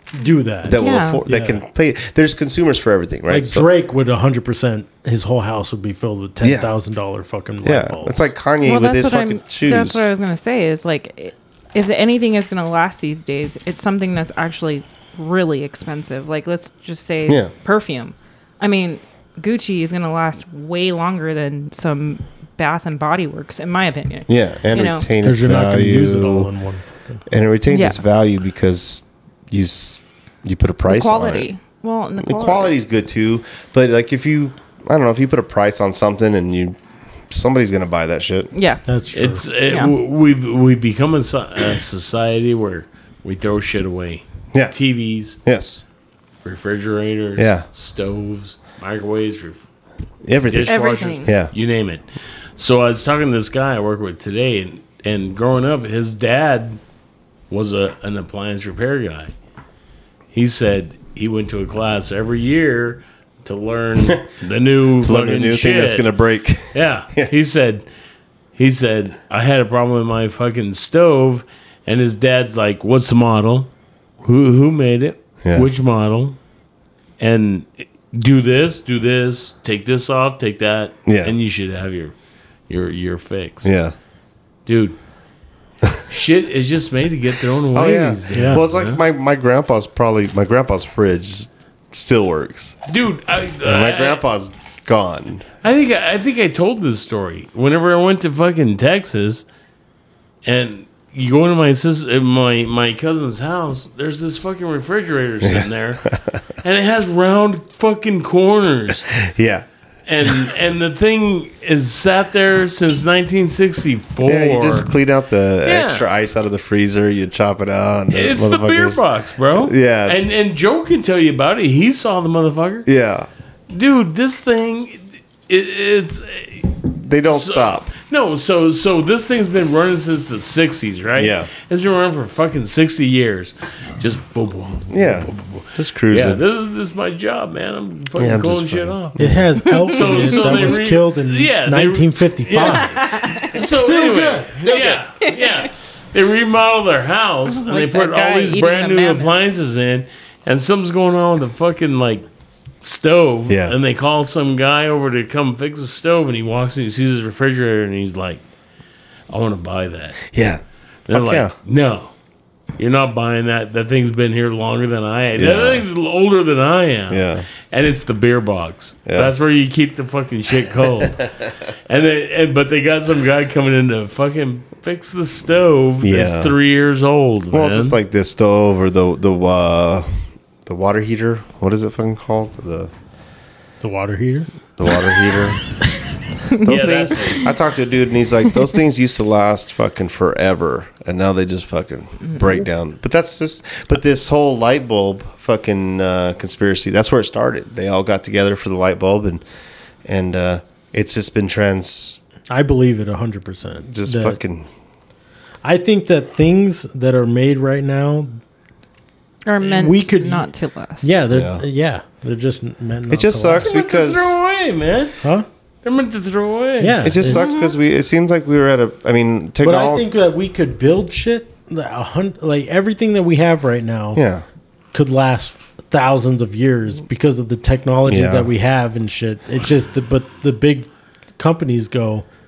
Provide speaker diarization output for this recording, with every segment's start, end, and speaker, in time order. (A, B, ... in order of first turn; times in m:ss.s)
0:00.1-0:01.6 A
0:00.6-0:03.7 B
0:00.8-0:01.2 C
0:03.3-0:08.3 A
0:06.4-0:06.7 B
0:07.6-0:10.0 B
0:08.6-0:25.1 C
0:24.3-0:26.5 B
0:25.2-0:27.2 A
0:27.3-0:31.5 B
0:27.7-0:28.0 C
0:30.9-0:32.7 C
0:32.2-0:36.8 B
0:37.3-0:38.5 B
0:38.5-0:38.8 C
0:38.9-0:39.4 A
0:39.1-0:45.4 D
0:39.7-0:40.0 C
0:44.5-0:44.8 B
0:45.4-0:45.8 B
0:46.4-0:49.7 D
0:47.4-0:47.7 B
0:50.2-0:51.5 B
0:50.5-0:52.0 D
0:50.6-0:51.3 C
0:52.6-0:56.8 D
0:57.5-0:59.3 D
1:00.3-1:06.1 D
1:05.0-1:07.3 B
1:06.7-1:07.9 D
1:08.6-1:13.7 D
1:14.2-1:16.4 D
1:15.4-1:15.7 B
1:17.2-1:22.1 D
1:21.0-1:21.4 B
1:22.7-1:23.7 D
1:23.6-1:24.0 B
1:24.7-1:25.0 D
1:26.1-1:29.0 D
1:27.7-1:32.8 B
1:28.3-1:28.6 A
1:32.9-1:34.2 D
1:33.6-1:35.5 B
1:35.6-1:39.4 D
1:40.4-1:46.0 D
1:45.4-1:46.4 B
1:46.6-1:49.1 D
1:49.2-1:49.7 B
1:50.1-1:54.9 D
1:54.2-1:59.0 B
1:55.6-1:56.1 D
1:58.1-2:02.9 D
1:59.5-2:00.3 B
2:02.8-2:03.3 B
2:03.7-2:06.8 D
2:06.9-2:07.9 B
2:07.3-2:32.3 D
2:11.2-2:11.5 B
2:14.9-2:16.4 B
2:18.2-2:19.4 B
2:19.2-2:24.8 A
2:19.6-2:20.6 C
2:22.6-2:23.5 C
2:25.2-2:25.6 C
2:27.5-2:29.3 C
2:32.8-2:38.4 D
2:33.5-2:33.8 B
2:39.3-2:40.2 D
2:40.3-2:41.6 B
2:41.1-2:42.1 D
2:42.8-2:51.2 D
2:45.4-2:45.8 B
2:47.1-2:47.5 B
2:51.9-2:58.0 D
2:56.0-2:56.6 B
2:57.5-3:00.1 B
3:00.7-3:02.9 B
3:03.8-3:04.5 A
3:04.8-3:05.6 B
3:06.6-3:19.4 B
3:06.6-3:07.5 D
3:20.0-3:22.2 B
3:22.5-3:24.4 A
3:23.9-3:24.7 B
3:25.6-3:28.4 A
3:29.5-3:31.2 C
3:29.6-3:33.8 A
3:31.3-3:31.6 B
3:33.1-3:34.4 B
3:33.6-3:35.2 D
3:35.8-3:37.0 D
3:36.8-3:37.4 A
3:37.0-3:40.1 B
3:37.2-3:37.8 C
3:39.6-3:44.2 A
3:44.2-3:44.4 B
3:44.9-3:52.3 A
3:48.1-3:48.5 B